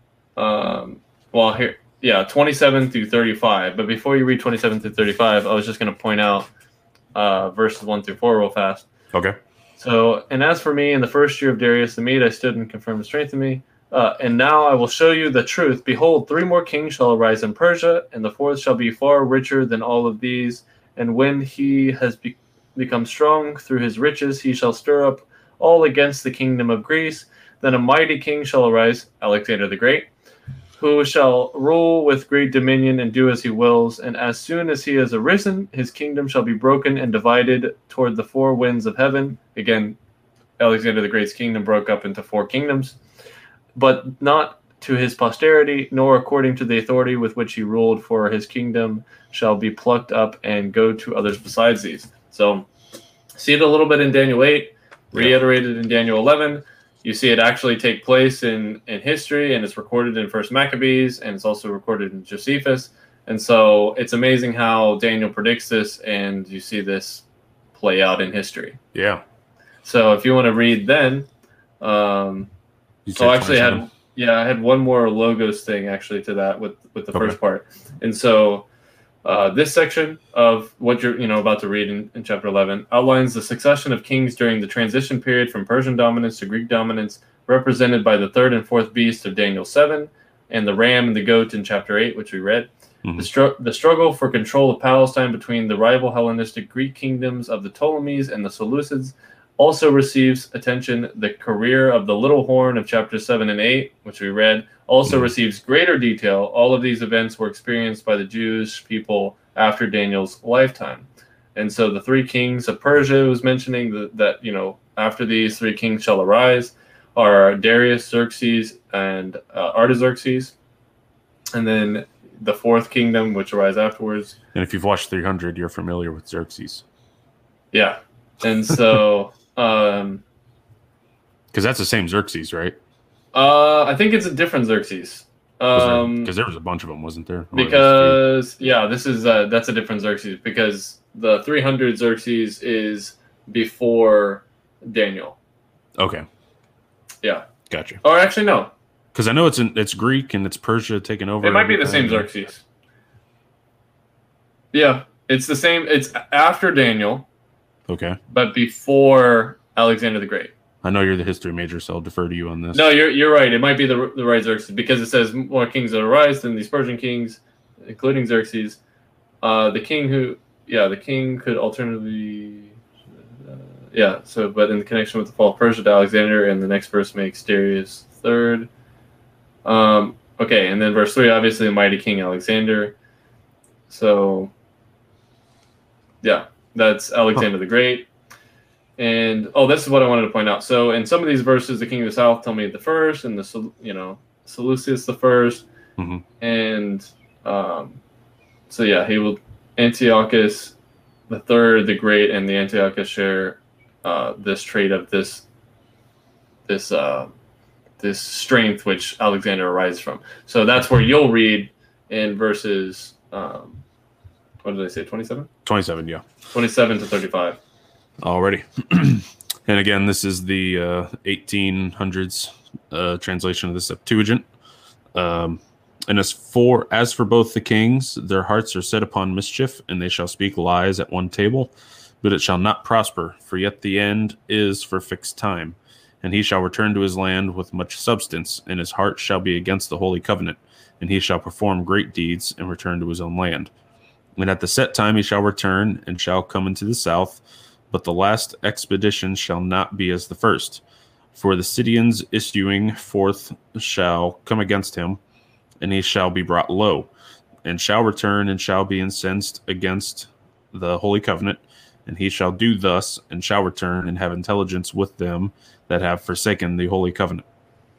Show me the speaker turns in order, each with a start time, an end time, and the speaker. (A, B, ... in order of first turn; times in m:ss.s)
0:00.4-0:06.5 A
0:07.1-0:08.9 A
0:09.8-0:30.1 A
0:30.8-0:40.0 A
0:40.6-0:43.0 A
0:43.8-0:52.7 A
0:53.4-1:08.8 A
1:08.9-1:09.2 B
1:09.8-1:11.3 A
1:11.8-1:12.5 A
1:13.0-1:13.8 B
1:13.2-1:18.6 A
1:19.2-2:00.5 A
2:01.5-2:04.4 A
2:04.5-2:06.8 B
2:07.7-2:10.2 A
2:11.5-2:12.8 B
2:13.3-2:16.3 A
2:15.8-2:18.2 B
2:17.5-2:25.4 A
2:26.0-2:26.2 B
2:27.7-2:28.0 B
2:28.0-2:28.7 A
2:29.1-2:32.3 B
2:31.4-2:32.6 A
2:34.7-2:37.2 A
2:37.9-2:38.2 B
2:38.3-2:40.5 A
2:40.8-2:42.9 B
2:42.7-2:48.8 A
2:49.4-2:52.7 A
2:53.5-2:58.7 A
2:59.6-3:02.9 A
3:03.9-3:04.5 A
3:06.2-3:08.1 A
3:09.0-3:15.6 A
3:16.0-3:16.2 B
3:16.4-3:18.0 A
3:18.7-3:20.7 A
3:21.3-3:25.4 A
3:26.7-3:27.3 A
3:28.0-3:33.8 A
3:34.6-3:35.5 A
3:35.6-3:36.2 B
3:36.5-3:37.6 A
3:38.2-3:44.4 B
3:45.1-4:03.7 B
4:04.4-4:10.8 B
4:11.3-4:15.2 B
4:15.8-4:17.1 B
4:17.6-4:27.4 B